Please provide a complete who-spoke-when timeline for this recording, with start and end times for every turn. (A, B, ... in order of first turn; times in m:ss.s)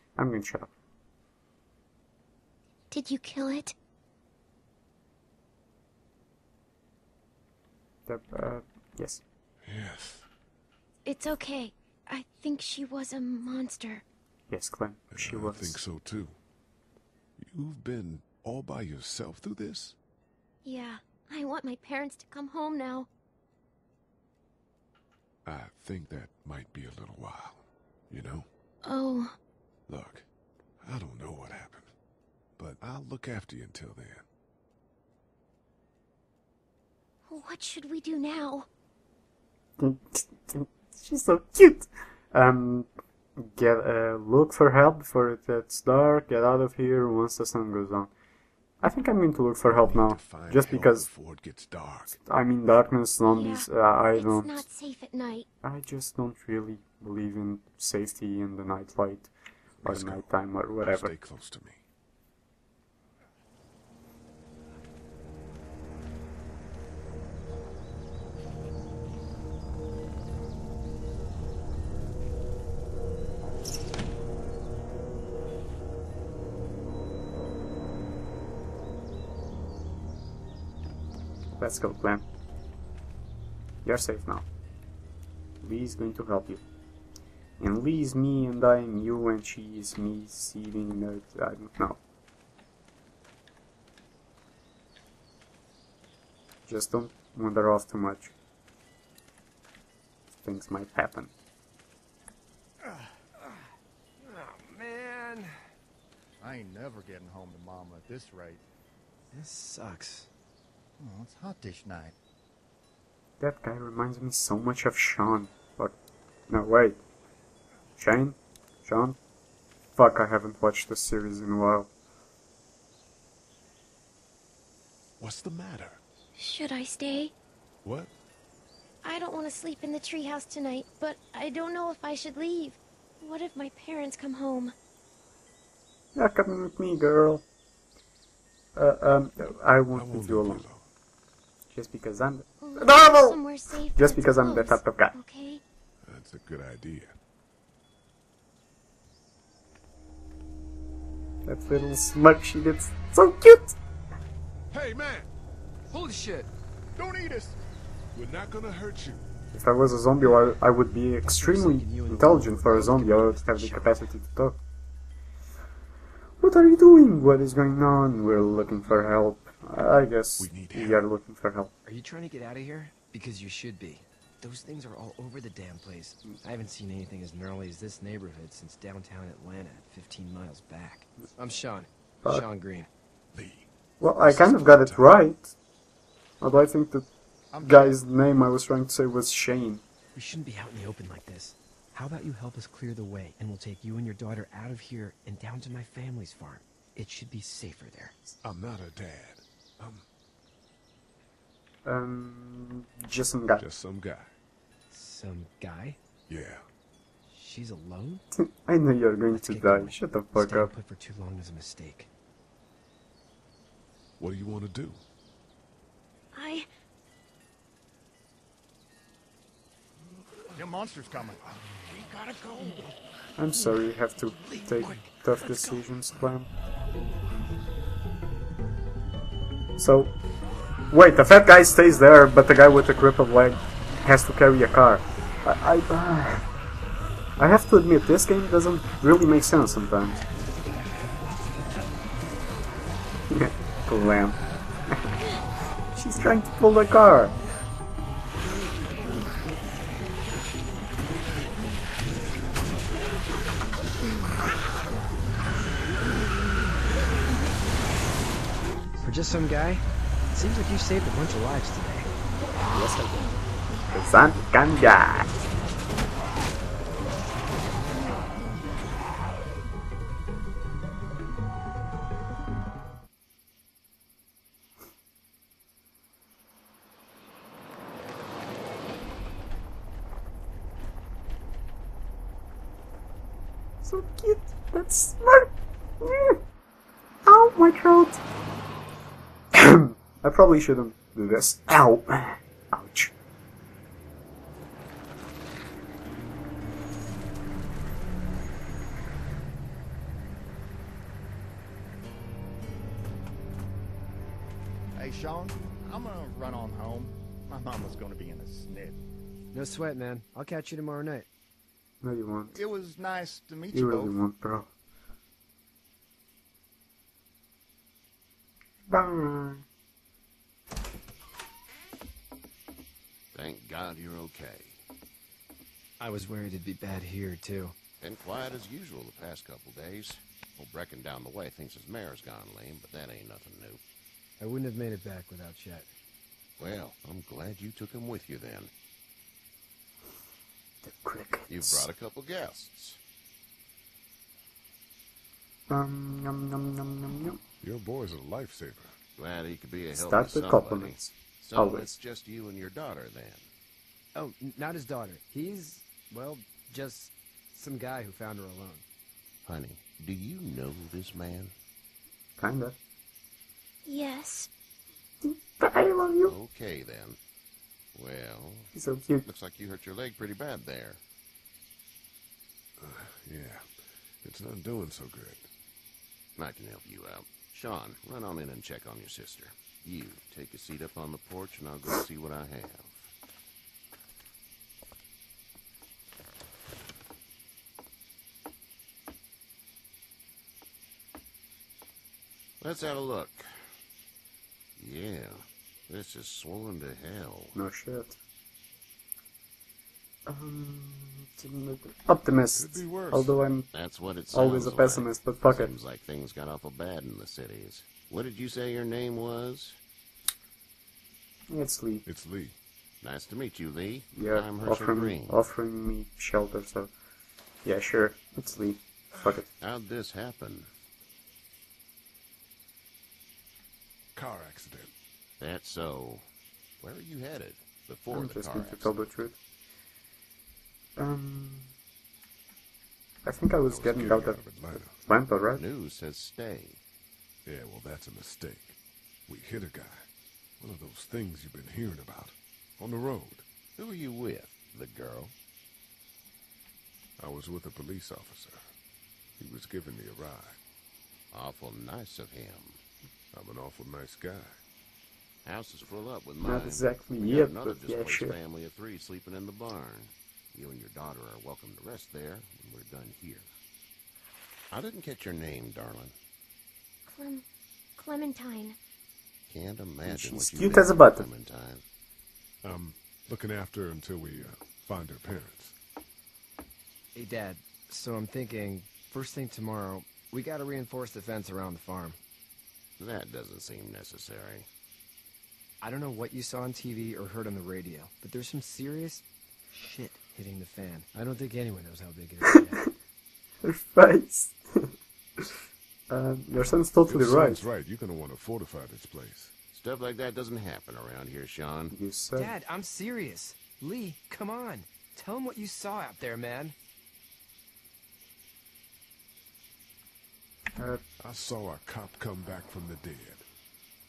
0:00.2-0:00.7 A
0:02.9-0:03.7 B
0:08.1-0:09.2 A
0:09.6-0:10.2 C
0:11.0-0:14.0 B
0:14.5-0:15.8 A
0:15.1-0:16.4 C
0:17.4-0:20.0 C
0:20.6-0:23.1 B
0:25.4-0:28.5 C
0:28.8-0:29.3 B
0:29.9-0:30.2 C
0:30.8-0:31.9 C
0:32.6-0:34.2 C
0:37.3-0:38.7 B
0:39.8-0:48.1 A
0:48.8-0:51.1 A
0:49.6-0:52.2 C
0:52.2-0:54.7 A
0:53.2-0:55.5 B
0:55.6-0:59.3 A
0:59.8-1:01.8 C
0:59.8-1:01.1 A
1:21.6-1:22.2 A
1:23.8-1:24.4 A
1:25.6-1:26.6 A
1:27.6-1:32.0 A
1:36.7-1:38.3 A
1:40.4-1:41.3 A
1:44.2-1:45.5 D
1:46.4-1:48.6 E
1:49.3-1:50.3 D
1:51.0-1:52.1 E
1:53.4-1:55.9 A
1:56.5-1:57.0 A
1:58.0-1:59.2 A
2:00.0-2:01.9 A
2:05.2-2:06.0 C
2:06.4-2:07.3 B
2:07.8-2:08.1 C
2:09.0-2:14.7 B
2:16.1-2:17.4 A
2:18.8-2:20.7 A
2:19.9-2:20.9 C
2:21.7-2:25.2 A
2:22.6-2:25.6 B
2:26.0-2:27.2 C
2:31.4-2:33.7 A
2:34.7-2:35.3 C
2:35.9-2:36.5 D
2:37.0-2:37.6 E
2:38.1-2:39.2 C
2:39.5-2:44.6 A
2:41.2-2:44.1 D
2:46.4-2:51.7 A
2:50.4-2:51.1 C
2:51.8-3:02.9 D
3:03.3-3:05.2 C
3:04.0-3:05.5 A
3:06.4-3:07.0 A
3:07.5-3:08.0 E
3:07.6-3:09.8 A
3:10.1-3:18.2 D
3:18.4-3:20.0 C
3:21.8-3:23.6 A
3:23.6-3:24.3 C
3:24.9-3:26.0 D
3:26.3-3:26.6 C
3:27.3-3:28.2 D
3:28.4-3:30.7 A
3:29.3-3:32.1 D
3:34.2-3:35.0 C
3:36.3-3:36.7 B
3:40.5-3:41.6 E
3:42.1-3:42.4 E
3:43.4-3:46.5 A
3:49.8-3:50.1 A
3:50.9-3:56.5 A
3:57.4-4:00.2 A
4:03.3-4:04.4 A
4:05.9-4:07.3 A
4:19.0-4:22.1 D
4:22.7-4:23.3 A
4:23.9-4:25.3 A
4:43.8-4:46.4 A
4:47.2-4:48.2 A
4:49.5-4:53.1 A
5:05.0-5:09.0 E
5:09.5-5:11.3 D
5:12.0-5:12.6 A
5:12.5-5:14.2 E
5:13.7-5:14.7 A
5:18.9-5:19.6 A
5:23.3-5:24.8 F
5:26.0-5:27.7 D
5:28.0-5:33.8 F
5:34.4-5:35.9 D
5:36.6-5:38.7 F
5:40.8-5:41.9 A
5:41.5-5:43.0 F
5:45.7-5:47.4 A
5:47.6-5:48.9 C
5:49.2-5:53.5 F
5:49.9-5:51.9 A
5:54.1-5:58.8 D
5:59.4-6:01.5 F
6:02.4-6:02.8 A
6:03.8-6:04.5 B
6:05.3-6:06.3 A
6:06.2-6:07.2 F
6:07.9-6:11.0 F
6:08.7-6:09.2 A
6:12.8-6:15.5 C
6:16.4-6:23.1 F
6:32.6-6:33.5 F
6:34.8-6:37.5 F
6:37.5-6:38.2 A
6:40.3-6:43.7 A
6:42.5-6:43.4 C
6:43.7-6:49.8 F
6:44.3-6:45.7 A
6:51.5-6:52.0 A
6:52.0-6:52.6 C
6:53.0-6:55.4 F
6:54.1-6:56.9 A
6:57.6-6:59.5 A
6:59.6-7:00.7 F
7:04.1-7:04.9 C
7:05.4-7:06.2 F
7:06.8-7:09.0 F
7:08.1-7:09.3 A
7:11.0-7:11.7 A
7:13.2-7:15.6 A
7:13.7-7:14.1 F
7:13.7-7:15.0 C
7:15.5-7:16.8 F
7:17.4-7:20.1 C
7:20.6-7:23.5 C
7:23.8-7:25.3 F
7:27.2-7:28.7 C
7:29.4-7:30.6 C
7:31.3-7:32.8 F
7:33.3-7:34.6 C
7:35.4-7:43.5 F
7:36.4-7:38.4 A
7:44.7-7:46.1 F
7:47.1-7:47.4 B
7:48.0-7:48.8 B
7:49.5-7:51.8 F
7:50.0-7:51.3 A
7:52.6-7:55.8 C
7:57.1-8:02.2 D
8:03.0-8:04.7 F
8:05.8-8:12.8 D
8:13.6-8:14.6 A
8:16.1-8:17.7 A
8:17.0-8:19.5 C
8:19.7-8:21.9 F
8:21.9-8:22.5 A
8:22.4-8:26.8 D
8:31.2-8:33.4 C